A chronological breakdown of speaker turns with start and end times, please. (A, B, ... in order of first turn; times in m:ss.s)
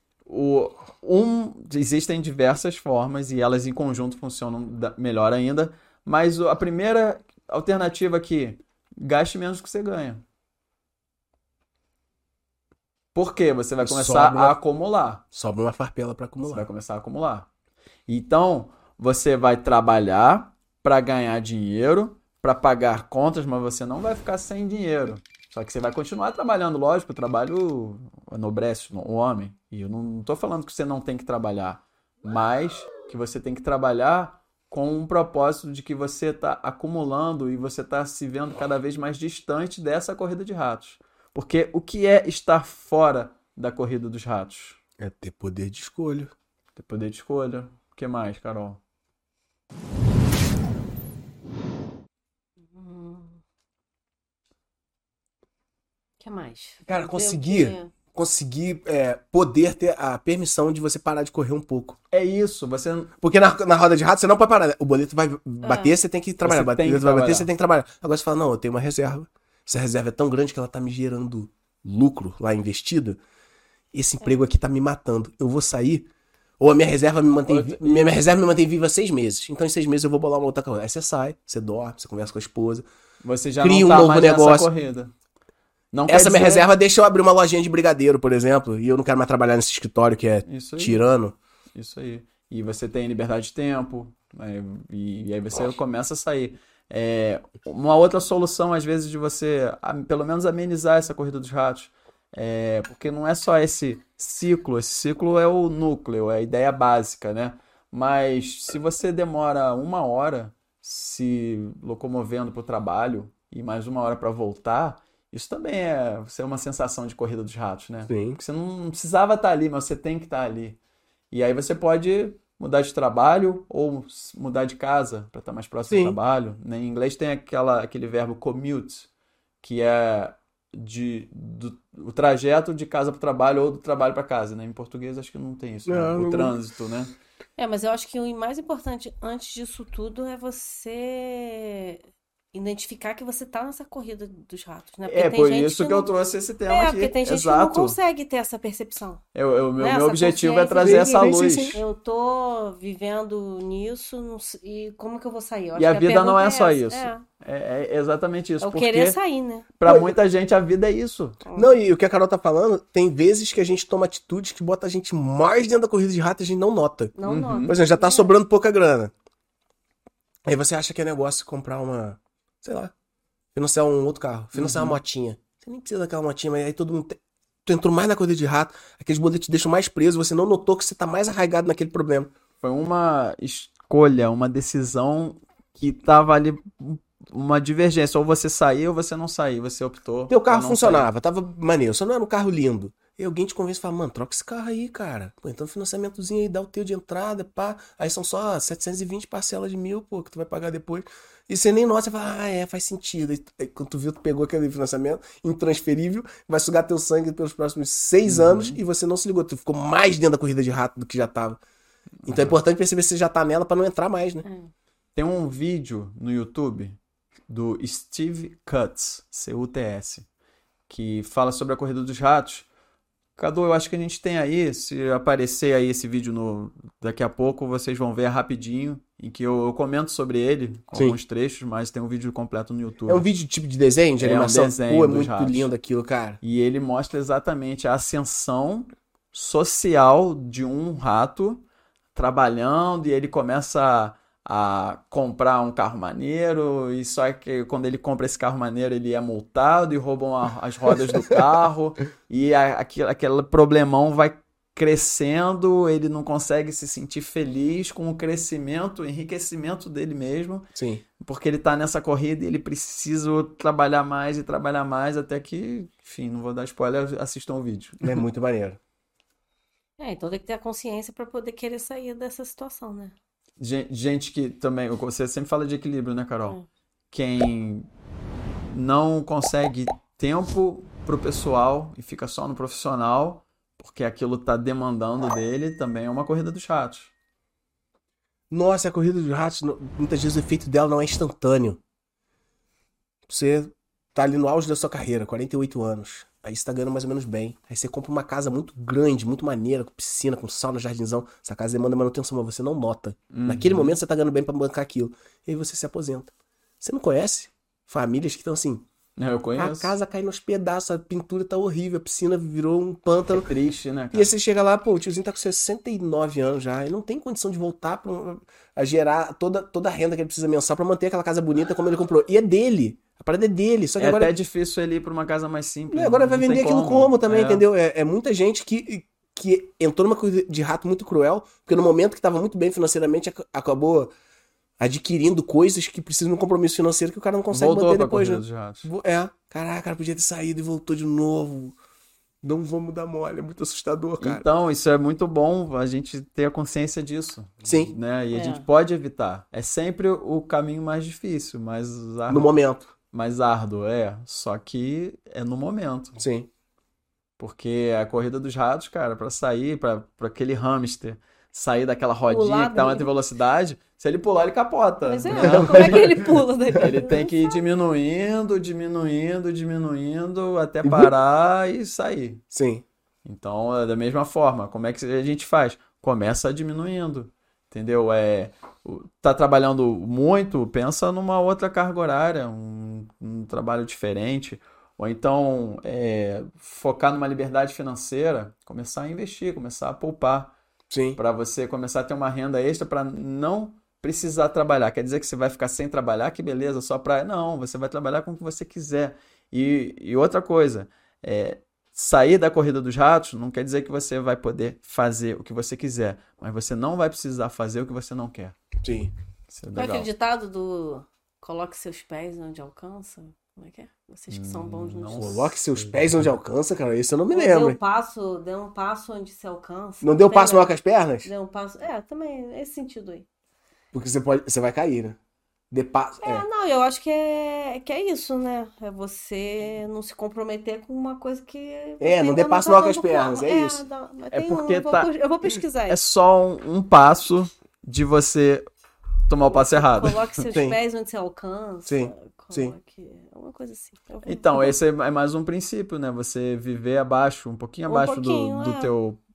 0:00.2-0:10.2 A
0:13.1-0:15.2 A
0:13.8-0:14.6 B
0:15.3-0:16.6 B
0:16.4-0:17.5 A
0:18.1-0:44.8 A
0:45.0-0:46.3 B
0:46.7-0:48.8 A
0:52.7-0:53.4 C
0:56.2-0:57.9 C
0:56.8-1:02.0 B
1:02.1-1:03.1 A
1:03.2-1:13.2 B
1:05.6-1:05.9 C
1:06.4-1:07.5 A
1:13.9-1:16.1 B
1:16.6-1:22.8 B
1:17.5-1:18.2 A
1:23.2-1:25.1 A
1:23.6-1:24.7 B
1:25.9-1:26.7 A
1:26.1-1:31.3 B
1:30.4-1:31.0 A
1:31.7-2:00.8 A
1:58.1-1:58.4 B
2:01.3-2:09.1 A
2:05.9-2:06.2 B
2:09.6-2:17.1 A
2:15.9-2:16.6 B
2:17.6-2:22.0 C
2:22.5-2:26.1 C
2:25.0-2:28.0 A
2:26.7-2:29.2 C
2:29.3-2:31.8 A
2:29.8-2:37.2 C
2:30.8-2:31.8 B
2:35.8-2:39.2 A
2:38.6-2:39.7 C
2:39.8-2:41.4 A
2:39.8-2:40.2 B
2:41.4-2:41.8 C
2:41.5-2:49.1 B
2:47.1-2:48.3 C
2:47.2-2:47.8 A
2:50.4-2:52.9 B
2:53.5-3:02.3 B
2:54.5-2:55.0 A
3:02.6-3:11.1 A
3:10.3-3:31.6 B
3:28.2-3:28.8 A
3:32.2-3:32.6 A
3:32.2-3:34.4 B
3:34.4-3:34.7 C
3:35.1-3:40.3 A
3:40.9-3:42.7 A
3:43.4-3:53.2 A
3:53.1-3:56.4 B
3:54.2-3:55.7 A
3:56.4-4:20.7 A
4:11.0-4:11.4 B
4:20.7-4:21.0 B
4:21.2-4:28.2 A
4:28.0-4:28.8 B
4:30.0-4:33.1 C
4:33.6-4:36.6 A
4:37.1-4:37.9 A
4:38.7-4:47.1 A
4:48.5-4:51.8 B
4:53.3-5:08.8 B
5:03.3-5:04.0 A
5:09.2-5:10.0 A
5:09.6-5:13.5 B
5:13.3-5:14.3 A
5:14.1-5:24.3 B
5:24.0-5:27.6 A
5:25.9-5:34.1 B
5:34.8-5:41.8 B
5:37.5-5:38.9 A
5:42.4-5:44.5 B
5:44.2-5:52.5 A
5:47.6-5:47.9 B
5:48.3-5:48.6 C
5:52.3-5:52.9 B
5:53.1-5:56.2 A
5:56.2-5:56.5 B
5:57.4-6:06.1 A
6:02.3-6:03.1 C
6:05.0-6:07.5 C
6:05.3-6:06.0 B
6:06.7-6:12.4 A
6:10.8-6:11.1 B
6:12.5-6:12.8 B
6:13.2-6:30.5 A
6:30.9-6:31.2 B
6:31.2-6:48.6 A
6:48.8-6:49.1 B
6:49.5-6:50.1 A
6:49.7-6:55.3 C
6:54.3-6:56.3 A
6:55.2-6:57.8 B
6:57.3-7:03.2 C
7:00.0-7:01.3 B
7:03.9-7:05.2 B
7:05.7-7:06.4 B
7:06.2-7:16.0 C
7:12.0-7:13.8 B
7:14.3-7:15.1 A
7:15.9-7:18.6 A
7:19.3-7:20.4 A
7:19.4-7:24.8 C
7:20.5-7:20.8 B
7:21.8-7:22.7 B
7:24.2-7:29.2 A
7:27.9-7:28.9 C